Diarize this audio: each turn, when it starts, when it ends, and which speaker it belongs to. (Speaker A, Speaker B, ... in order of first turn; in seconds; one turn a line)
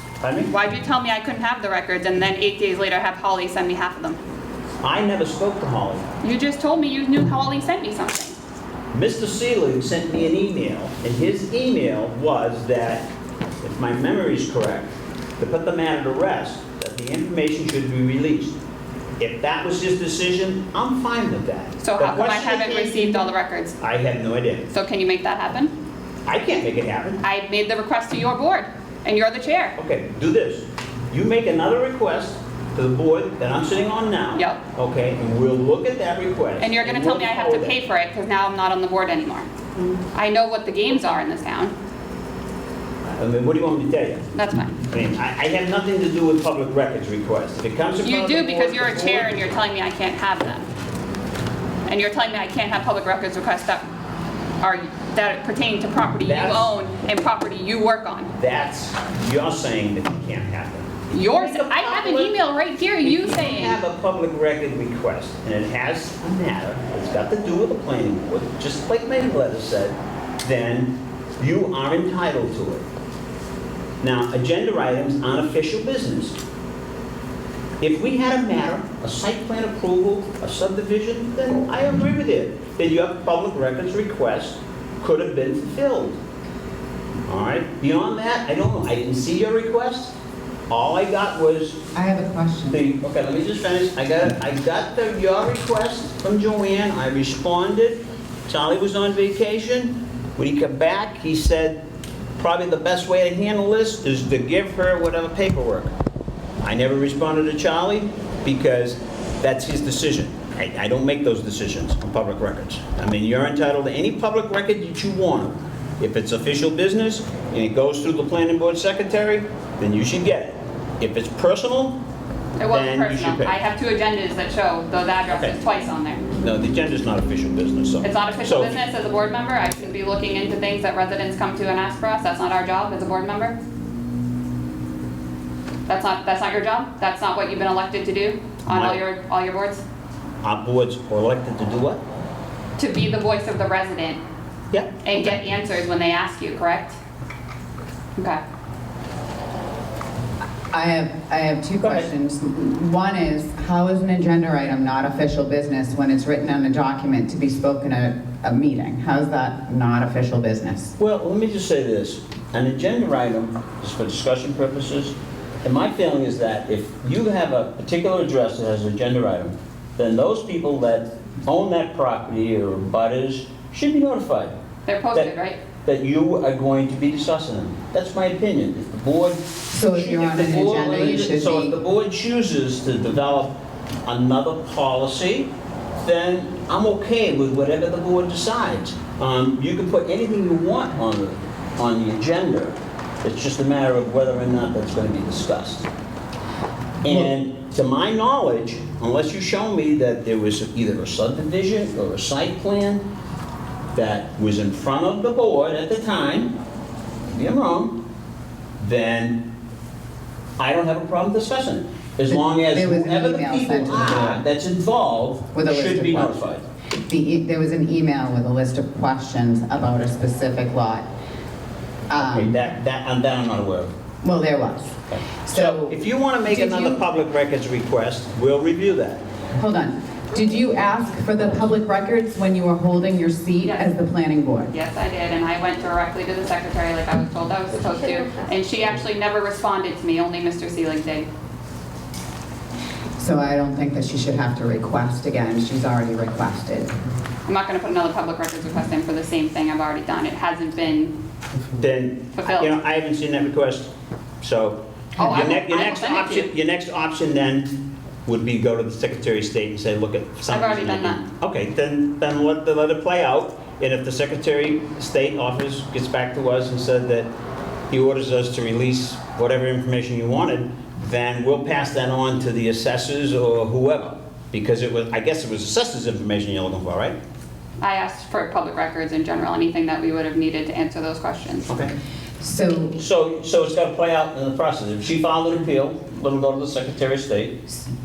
Speaker A: 0.2-0.5
Speaker B: 0.5-4.2
Speaker A: 4.8-6.0
Speaker B: 6.2-8.3
Speaker A: 8.9-13.1
Speaker A: 13.6-18.6
Speaker A: 19.2-23.3
Speaker B: 21.8-23.7
Speaker A: 23.8-24.7
Speaker B: 24.7-25.7
Speaker A: 26.2-27.2
Speaker B: 27.2-29.7
Speaker A: 29.8-37.8
Speaker B: 34.3-34.6
Speaker B: 36.6-39.5
Speaker B: 40.1-41.7
Speaker A: 43.0-44.2
Speaker B: 44.3-44.8
Speaker A: 44.9-49.5
Speaker B: 48.0-50.7
Speaker B: 51.9-53.9
Speaker B: 54.6-58.3
Speaker A: 56.2-56.7
Speaker A: 58.3-62.3
Speaker B: 61.1-63.8
Speaker A: 63.0-72.8
Speaker A: 74.0-76.4
Speaker A: 77.8-86.2
Speaker A: 87.3-90.1
Speaker A: 90.7-91.9
Speaker C: 91.9-92.8
Speaker A: 92.7-101.8
Speaker A: 102.4-105.9
Speaker A: 106.6-122.0
Speaker B: 122.6-126.2
Speaker A: 122.7-123.5
Speaker A: 125.3-125.6
Speaker A: 126.4-128.7
Speaker B: 128.0-133.6
Speaker B: 135.9-139.8
Speaker A: 138.7-139.0
Speaker A: 140.4-142.0
Speaker B: 142.8-144.2
Speaker A: 144.7-145.4
Speaker B: 145.0-147.0
Speaker C: 150.7-160.9
Speaker A: 151.8-152.1
Speaker A: 161.0-174.6
Speaker B: 174.8-175.6
Speaker A: 175.8-183.5
Speaker C: 179.7-181.8
Speaker A: 184.1-195.9
Speaker A: 197.0-203.0
Speaker A: 203.9-206.5
Speaker A: 207.3-208.0
Speaker A: 208.8-209.5
Speaker A: 210.6-216.6
Speaker C: 212.3-214.4
Speaker C: 215.5-216.4
Speaker C: 217.1-221.1
Speaker C: 222.1-222.6
Speaker A: 222.2-223.9
Speaker C: 224.2-227.0
Speaker A: 225.1-229.2
Speaker C: 229.6-234.7
Speaker B: 233.6-233.9
Speaker B: 234.7-241.3
Speaker C: 243.2-246.9
Speaker B: 247.4-251.1
Speaker A: 251.8-267.3
Speaker B: 252.4-252.7
Speaker B: 255.2-256.5
Speaker B: 260.5-261.2
Speaker A: 267.9-277.2
Speaker B: 277.8-281.7
Speaker C: 282.4-283.0
Speaker A: 282.9-287.6